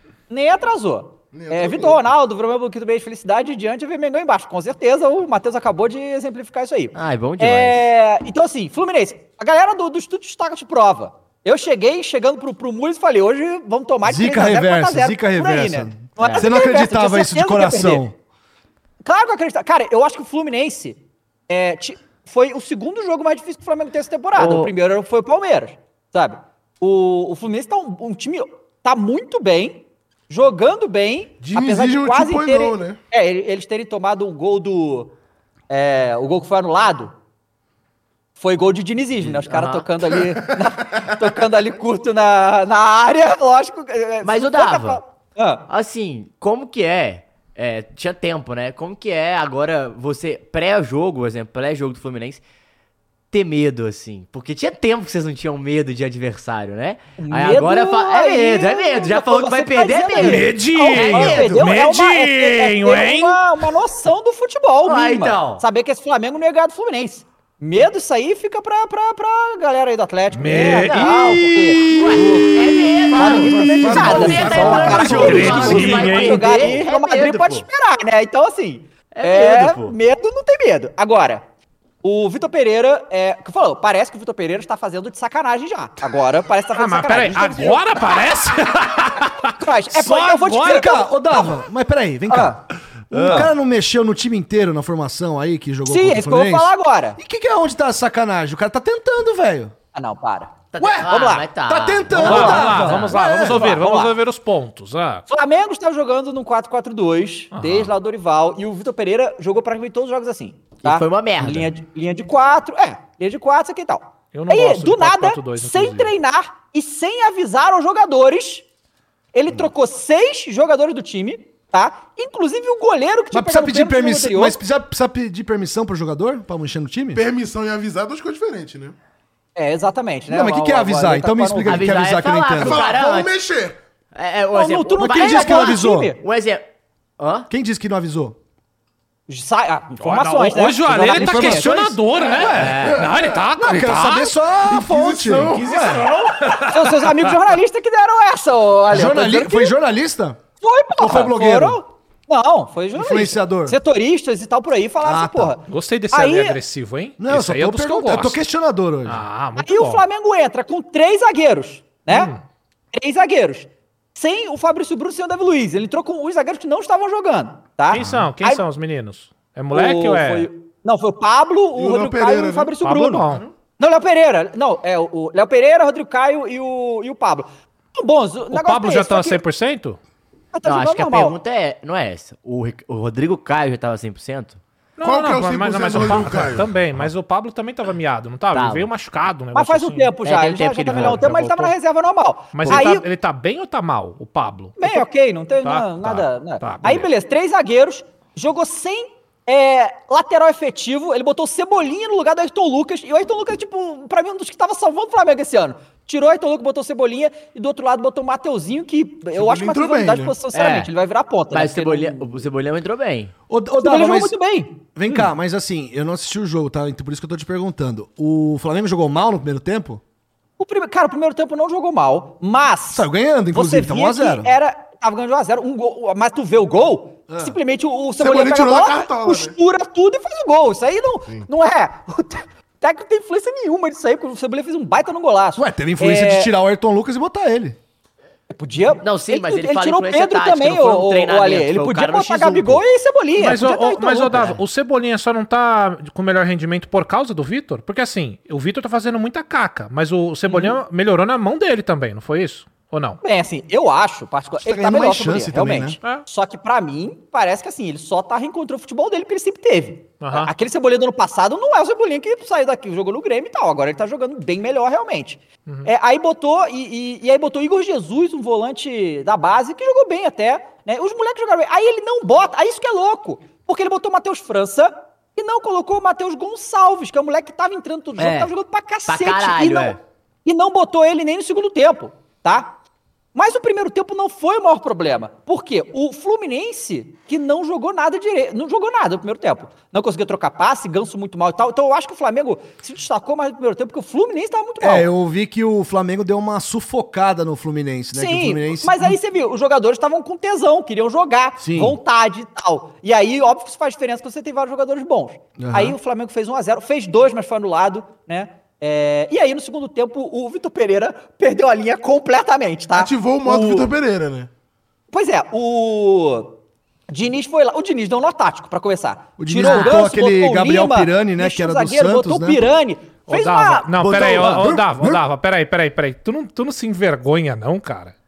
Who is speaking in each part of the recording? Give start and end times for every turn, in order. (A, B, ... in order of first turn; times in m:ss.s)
0:00.3-0:18.0 A
0:01.3-0:02.0 B
0:06.9-0:07.8 C
0:14.0-0:18.1 D
0:16.2-0:16.5 C
0:19.0-0:21.0 A
0:21.5-0:35.1 A
0:24.3-0:24.7 C
0:31.4-0:33.0 B
0:35.7-0:37.1 A
0:38.4-0:45.6 A
0:39.2-0:40.0 C
0:40.2-0:41.3 B
0:44.2-0:45.0 C
0:45.7-0:52.4 C
0:53.3-1:01.7 C
0:57.2-1:12.3 A
1:00.2-1:03.6 E
1:04.8-1:05.6 C
1:10.3-1:11.7 E
1:10.5-1:17.6 C
1:11.9-1:12.7 D
1:13.0-1:16.0 B
1:13.1-1:21.4 A
1:14.0-1:15.8 D
1:14.3-1:16.7 E
1:19.1-1:19.9 C
1:22.0-1:27.8 A
1:26.7-1:31.0 E
1:29.6-1:31.5 A
1:30.6-1:32.6 D
1:32.3-1:32.6 A
1:33.1-1:39.7 D
1:33.1-1:33.5 E
1:33.1-1:33.5 A
1:35.8-1:37.2 A
1:39.9-1:41.5 A
1:40.7-1:42.8 C
1:40.8-1:43.6 D
1:42.1-1:44.2 A
1:42.1-1:45.3 E
1:45.3-1:58.6 A
1:47.5-1:47.9 E
1:50.8-1:51.7 C
1:54.3-1:56.1 E
1:59.3-2:04.6 A
2:03.3-2:07.2 D
2:07.1-2:09.0 B
2:09.6-2:12.0 A
2:10.3-2:12.8 D
2:11.6-2:13.3 C
2:12.6-2:13.8 B
2:14.1-2:16.7 C
2:14.5-2:16.2 A
2:15.0-2:16.1 D
2:17.2-2:17.5 C
2:17.5-2:18.4 D
2:19.3-2:22.0 A
2:20.0-2:24.4 E
2:20.9-2:26.1 D
2:22.4-2:23.4 B
2:22.5-2:23.0 C
2:24.6-2:26.6 B
2:25.8-2:27.4 E
2:26.7-2:29.7 A
2:28.9-2:30.4 D
2:30.6-2:36.6 A
2:31.0-2:31.8 D
2:32.9-2:33.8 D
2:35.0-2:35.6 D
2:35.6-2:38.4 E
2:37.2-2:39.2 D
2:39.0-2:40.0 E
2:39.6-2:42.3 A
2:42.1-2:42.4 E
2:42.9-2:48.6 A
2:47.9-2:50.5 E
2:48.0-2:48.3 D
2:49.7-2:53.3 A
2:51.7-2:52.8 B
2:52.8-2:53.4 E
2:53.8-2:59.4 A
2:58.5-3:00.0 E
3:00.5-3:01.4 A
3:00.6-3:04.6 C
3:05.0-3:10.1 E
3:05.0-3:06.7 B
3:08.5-3:08.9 C
3:09.5-3:13.0 A
3:10.2-3:11.3 C
3:10.9-3:11.7 E
3:12.5-3:15.0 E
3:14.8-3:32.3 A
3:15.6-3:17.1 E
3:29.3-3:30.4 B
3:30.5-3:30.9 C
3:31.5-3:33.3 C
3:33.5-3:34.3 D
3:33.8-3:34.8 A
3:34.9-3:40.0 D
3:40.6-3:56.5 A
3:42.9-3:44.5 D
3:47.3-3:47.6 D
3:48.2-3:49.6 B
3:55.6-3:57.8 D
3:58.5-4:04.6 A
3:59.0-4:02.8 C
4:03.4-4:13.2 E
4:04.3-4:04.6 C
4:10.5-4:10.8 A
4:13.2-4:42.8 A
4:14.6-4:16.0 D
4:20.2-4:20.5 E
4:38.2-4:38.5 C
4:39.0-4:40.0 C
4:43.3-4:55.1 A
4:54.8-4:59.2 D
4:58.1-5:13.9 A
5:01.6-5:02.0 D
5:05.6-5:06.0 D
5:12.9-5:14.5 B
5:15.1-5:16.6 A
5:17.1-5:23.9 A
5:19.4-5:22.6 D
5:19.6-5:20.0 E
5:23.3-5:28.2 E
5:24.0-5:25.2 D